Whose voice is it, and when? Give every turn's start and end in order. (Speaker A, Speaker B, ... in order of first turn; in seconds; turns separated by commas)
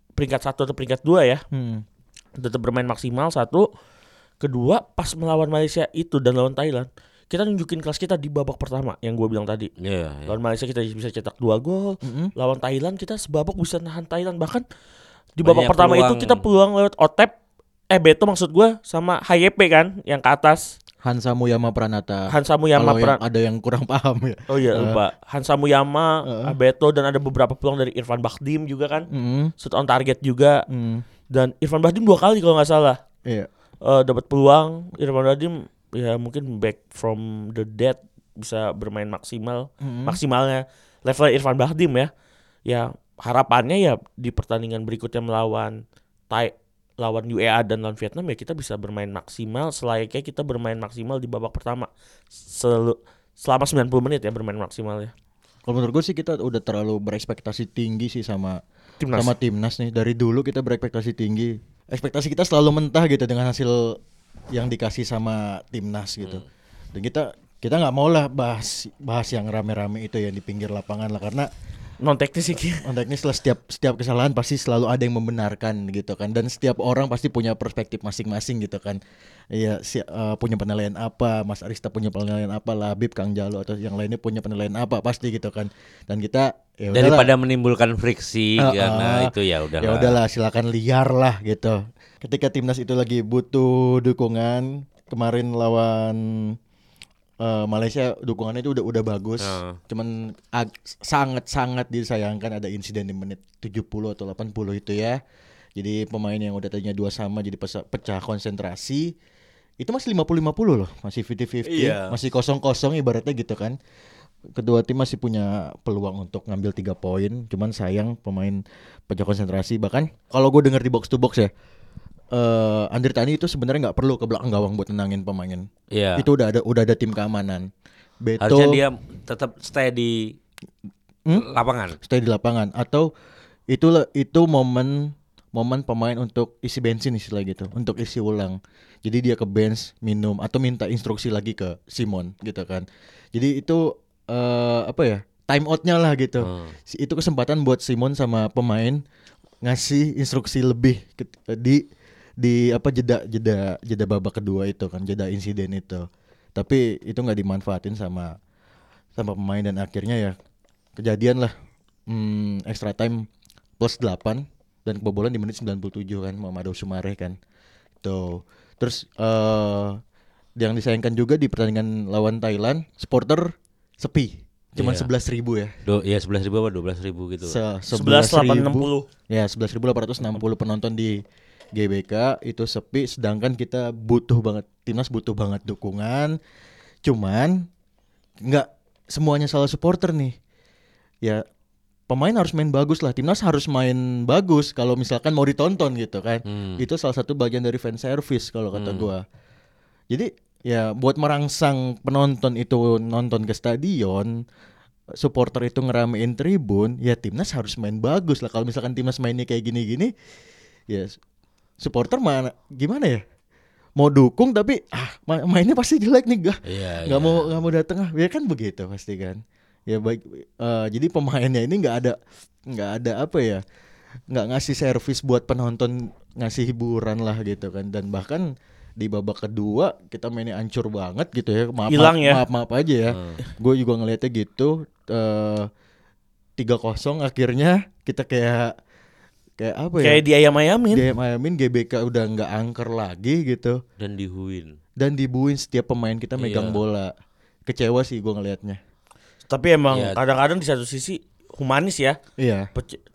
Speaker A: 0.2-1.4, Speaker B: 1.5-1.8, Speaker A: 2.4-3.7, Speaker A: 4.4-9.7, Speaker C: 9.8-10.3, Speaker A: 10.3-14.6, Speaker B: 12.0-12.3, Speaker A: 15.4-17.3, Speaker C: 15.4-16.4, Speaker A: 17.9-20.7, Speaker B: 21.0-25.0, Speaker A: 22.3-23.2, Speaker A: 24.5-29.1, Speaker B: 26.3-26.5, Speaker B: 29.1-29.5, Speaker A: 29.6-30.6, Speaker B: 30.7-31.1, Speaker A: 31.3-33.0, Speaker A: 33.9-42.1, Speaker B: 39.8-40.2, Speaker A: 42.7-55.1, Speaker B: 55.7-58.6, Speaker A: 59.0-59.4, Speaker B: 59.1-64.0, Speaker B: 64.5-71.5, Speaker A: 72.0-72.9, Speaker B: 72.8-79.0, Speaker B: 79.5-87.3, Speaker C: 86.9-90.2, Speaker B: 88.6-96.6, Speaker B: 97.4-105.2, Speaker C: 99.4-99.8, Speaker B: 105.8-109.1, Speaker B: 109.8-113.8, Speaker C: 111.7-112.2, Speaker B: 114.5-121.5, Speaker B: 122.3-127.7, Speaker C: 125.9-126.3, Speaker B: 128.2-128.8, Speaker C: 128.4-130.3, Speaker C: 131.3-132.0, Speaker B: 132.0-133.1, Speaker B: 133.7-149.0, Speaker C: 146.4-146.8, Speaker B: 149.6-151.8, Speaker B: 152.4-158.3, Speaker B: 159.2-160.4, Speaker B: 161.0-161.5, Speaker B: 162.1-163.3, Speaker B: 163.8-167.4, Speaker B: 168.0-170.0, Speaker B: 170.6-175.7, Speaker C: 174.8-175.1, Speaker C: 175.9-177.6, Speaker B: 177.4-181.2, Speaker A: 177.9-179.1, Speaker B: 181.8-186.4, Speaker B: 187.0-187.7, Speaker B: 188.4-190.3, Speaker B: 192.1-199.2, Speaker C: 196.5-196.8, Speaker C: 198.7-199.1, Speaker B: 200.1-204.3, Speaker B: 205.2-210.1, Speaker B: 210.9-211.2, Speaker B: 211.8-213.2, Speaker B: 214.0-223.6, Speaker C: 216.7-217.5, Speaker B: 224.3-235.7, Speaker A: 231.9-232.4, Speaker C: 233.1-233.4, Speaker B: 236.6-238.7, Speaker B: 239.6-240.2, Speaker A: 240.0-241.1, Speaker B: 240.9-243.8, Speaker C: 244.0-244.8, Speaker B: 245.0-247.1, Speaker C: 246.4-246.8, Speaker B: 247.7-248.8, Speaker A: 249.5-252.2, Speaker C: 249.9-250.2, Speaker B: 252.4-252.7, Speaker A: 252.8-253.0